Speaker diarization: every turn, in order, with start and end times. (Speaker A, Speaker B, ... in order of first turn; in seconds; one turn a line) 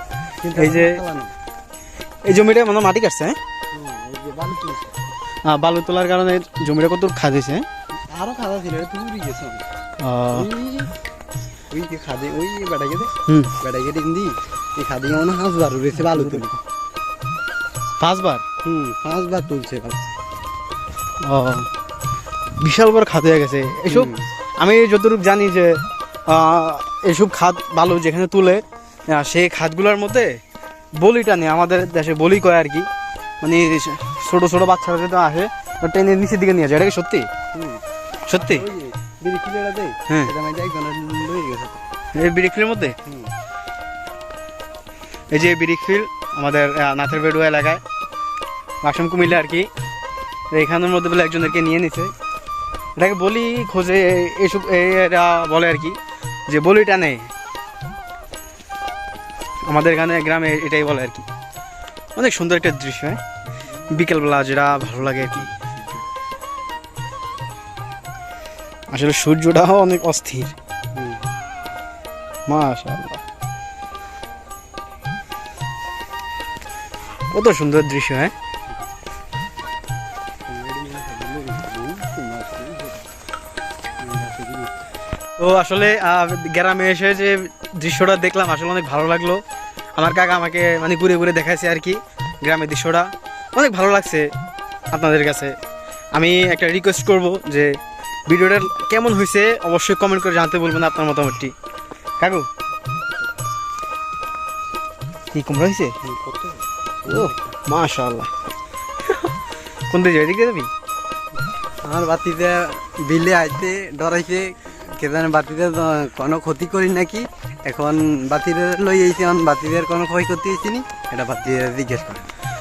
Speaker A: 0.4-1.3
Speaker B: 0.5-1.0
Speaker B: 2.2-3.4
Speaker A: 3.7-4.9
Speaker B: 5.4-7.7
Speaker A: 8.1-9.7
Speaker B: 10.0-10.5
Speaker A: 10.3-10.9
Speaker A: 11.7-16.6
Speaker B: 13.2-13.5
Speaker B: 16.0-16.5
Speaker B: 18.0-18.4
Speaker A: 18.6-20.0
Speaker B: 21.2-21.7
Speaker B: 22.6-30.4
Speaker A: 23.9-24.2
Speaker B: 31.0-32.9
Speaker B: 33.4-37.3
Speaker A: 37.5-37.8
Speaker B: 38.3-38.6
Speaker A: 38.3-41.8
Speaker B: 40.1-40.3
Speaker B: 42.1-43.0
Speaker B: 45.3-47.8
Speaker B: 48.8-49.7
Speaker B: 50.5-52.1
Speaker B: 53.0-56.0
Speaker B: 56.5-57.3
Speaker B: 59.7-61.2
Speaker B: 62.1-63.2
Speaker A: 63.6-64.0
Speaker B: 63.9-65.5
Speaker A: 64.7-66.0
Speaker B: 68.9-70.5
Speaker A: 70.9-71.3
Speaker B: 72.5-73.2
Speaker B: 77.3-78.3
Speaker A: 80.5-83.0
Speaker A: 84.0-84.7
Speaker B: 85.4-89.4
Speaker B: 90.0-94.3
Speaker B: 94.9-95.5
Speaker B: 96.1-101.5
Speaker B: 102.2-102.5
Speaker B: 105.3-105.9
Speaker A: 106.0-107.5
Speaker B: 107.0-108.3
Speaker B: 109.1-109.3
Speaker B: 109.9-110.7
Speaker A: 111.8-122.3